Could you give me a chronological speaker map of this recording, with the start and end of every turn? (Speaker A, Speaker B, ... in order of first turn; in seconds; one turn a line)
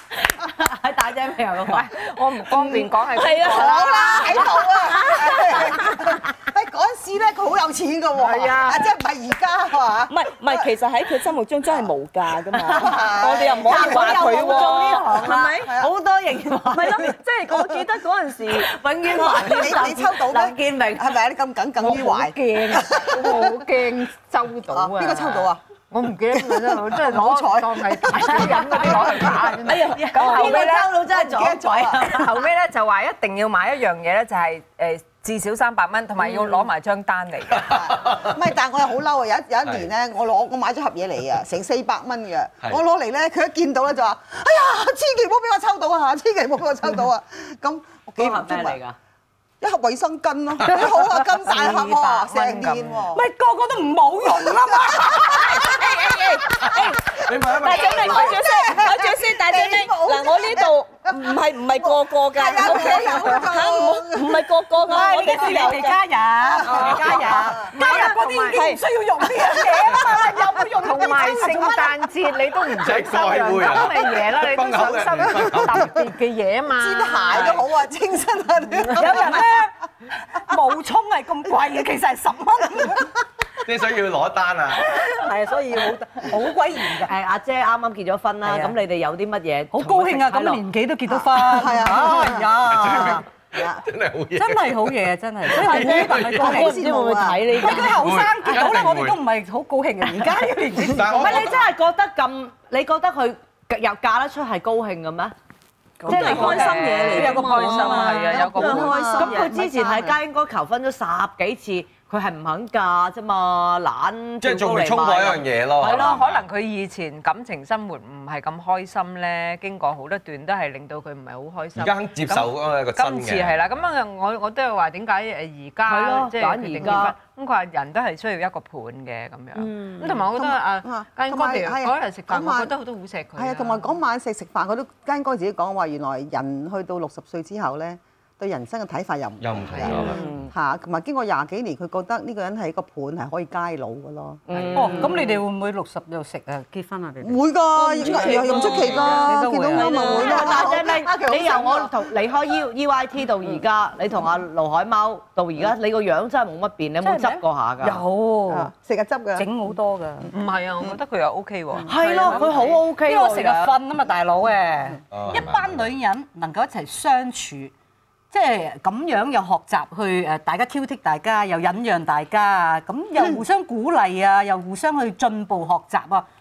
Speaker A: 0.3-1.9
Speaker B: 1.7-4.4
Speaker C: 3.1-4.3
Speaker D: 3.4-10.7
Speaker A: 4.7-6.0
Speaker B: 8.2-8.9
Speaker C: 10.1-15.7
Speaker A: 12.7-17.2
Speaker D: 12.7-15.9
Speaker C: 16.7-19.5
Speaker A: 18.5-21.2
Speaker D: 19.3-23.6
Speaker B: 21.8-31.0
Speaker D: 24.7-25.6
Speaker D: 26.3-32.1
Speaker A: 29.6-32.4
Speaker B: 32.0-37.8
Speaker D: 37.7-48.8
Speaker E: 37.7-38.3
Speaker A: 48.2-49.0
Speaker D: 49.6-53.2
Speaker B: 51.2-53.0
Speaker F: 53.1-56.3
Speaker D: 54.3-55.6
Speaker C: 55.6-57.0
Speaker E: 56.6-58.4
Speaker C: 57.6-66.0
Speaker D: 57.6-64.5
Speaker F: 64.8-71.9
Speaker D: 65.0-65.3
Speaker C: 66.7-68.8
Speaker B: 66.7-68.6
Speaker D: 67.0-67.6
Speaker B: 70.8-77.6
Speaker E: 72.8-75.9
Speaker D: 76.8-79.5
Speaker F: 79.0-79.7
Speaker F: 80.3-83.1
Speaker E: 83.6-84.8
Speaker F: 84.7-87.1
Speaker A: 87.0-90.6
Speaker F: 88.4-88.8
Speaker F: 89.7-93.2
Speaker D: 91.1-93.8
Speaker E: 92.7-96.5
Speaker F: 94.3-96.9
Speaker A: 95.8-98.8
Speaker D: 95.8-97.7
Speaker F: 97.5-101.5
Speaker E: 97.9-99.2
Speaker A: 100.1-105.3
Speaker E: 100.9-101.7
Speaker B: 106.0-109.2
Speaker C: 106.1-109.6
Speaker A: 106.1-106.9
Speaker F: 106.1-108.5
Speaker D: 108.3-110.2
Speaker A: 109.0-116.2
Speaker E: 114.4-116.4
Speaker B: 115.8-133.9
Speaker E: 121.8-123.8
Speaker A: 125.9-127.2
Speaker C: 129.6-130.0
Speaker D: 130.3-132.8
Speaker D: 133.4-144.4
Speaker E: 139.4-140.3
Speaker A: 139.9-140.5
Speaker A: 144.5-145.4
Speaker B: 144.5-145.0
Speaker F: 144.7-150.4
Speaker D: 147.2-152.1
Speaker B: 148.1-149.2
Speaker C: 148.1-149.2
Speaker C: 149.7-150.5
Speaker A: 150.1-158.0
Speaker F: 157.0-158.7
Speaker D: 157.8-159.5
Speaker F: 159.4-160.3
Speaker B: 160.3-162.8
Speaker A: 161.9-163.8
Speaker F: 162.1-167.7
Speaker E: 165.1-165.9
Speaker F: 168.3-176.3